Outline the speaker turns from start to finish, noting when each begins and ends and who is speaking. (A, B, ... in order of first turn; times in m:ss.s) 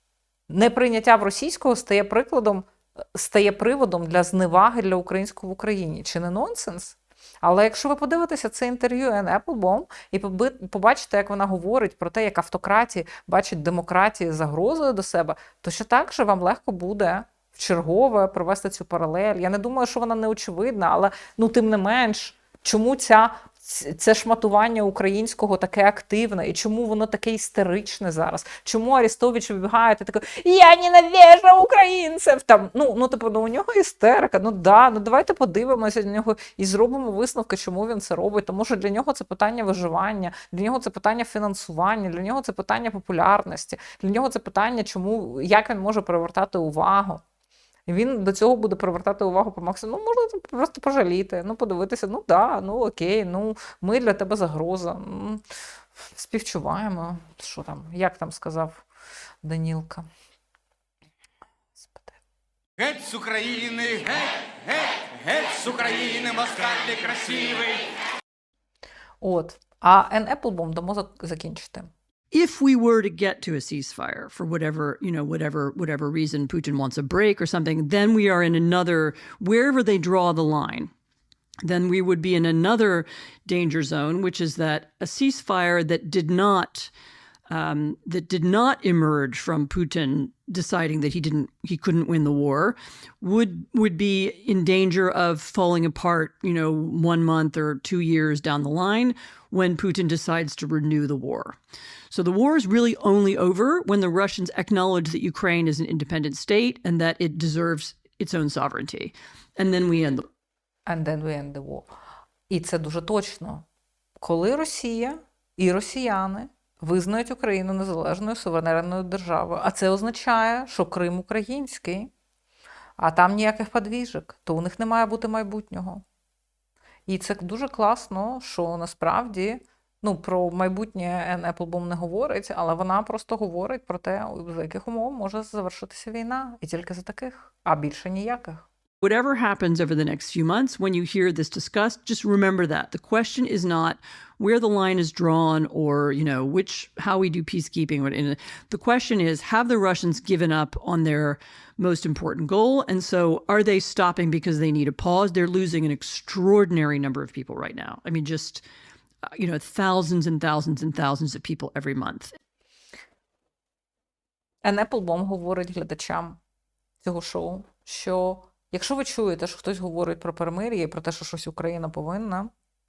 0:00.5-0:47.2 A
0:47.9-0:55.4 A
0:56.0-0:58.8 A
0:59.4-1:00.1 A
1:01.8-1:02.2 A
1:02.8-1:07.8 B
1:09.2-1:11.9 A
1:12.3-1:20.9 C
1:21.6-1:26.9 C
1:27.5-1:41.6 C
1:42.1-1:50.2 C
1:50.9-1:51.9 A
1:52.5-1:53.6 A
1:54.2-2:02.1 A
2:03.0-2:06.0 A
2:07.1-2:18.6 A
2:19.0-2:38.6 C
2:39.2-2:42.3 C
2:44.6-2:46.4 A
2:47.0-2:52.5 A